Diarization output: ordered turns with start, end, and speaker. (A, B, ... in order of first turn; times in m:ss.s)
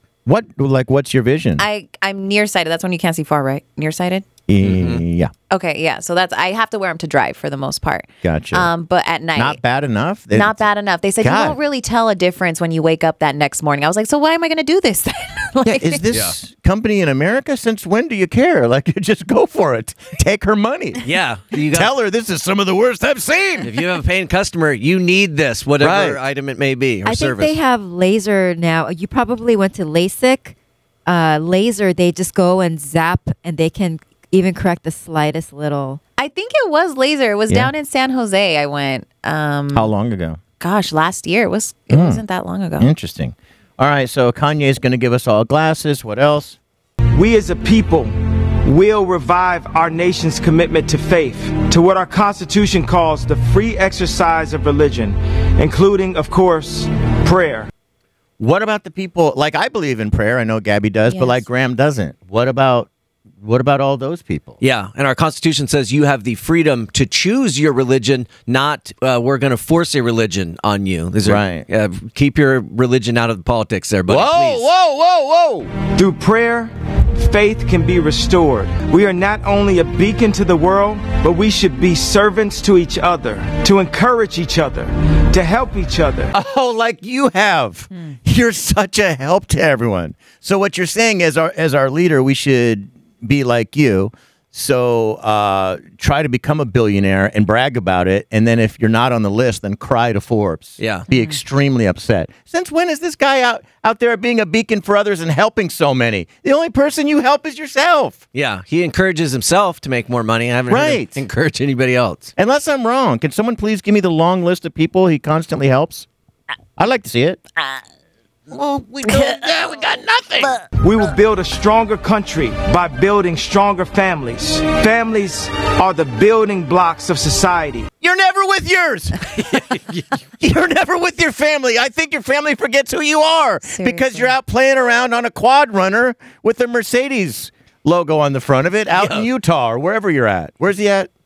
0:00.2-0:01.6 A
0:01.6-0:04.3 B
0:04.5-0:05.3 A
0:04.6-0:05.0 C
0:05.5-0:09.6 B
0:08.2-0:08.7 A
0:09.3-0:10.6 A
0:10.3-0:16.0 B
0:11.2-0:11.6 A
0:15.6-0:21.0 A
0:21.0-0:21.9 C
0:21.7-0:23.7 A
0:23.6-0:27.6 C
0:25.8-0:26.2 A
0:27.0-0:30.5 D
0:31.1-0:36.0 D
0:36.2-0:39.9 B
0:39.7-0:40.4 A
0:40.6-0:42.9 B
0:41.9-0:42.2 A
0:42.8-0:46.6 A
0:47.1-0:57.7 E
0:58.4-1:02.9 A
1:01.1-1:01.4 B
1:03.4-1:04.6 A
1:04.6-1:14.7 C
1:11.2-1:11.6 A
1:14.1-1:15.7 A
1:15.8-1:26.3 E
1:26.3-1:48.2 A
1:40.8-1:41.0 C
1:48.3-1:52.3 C
1:50.7-1:51.2 A
1:52.4-1:56.1 A
1:56.8-1:57.4 A
1:58.5-2:00.6 A
2:00.8-2:07.9 E
2:08.0-2:09.2 A
2:09.3-2:10.1 C
2:10.4-2:21.1 A
2:13.6-2:14.3 B
2:18.9-2:19.3 C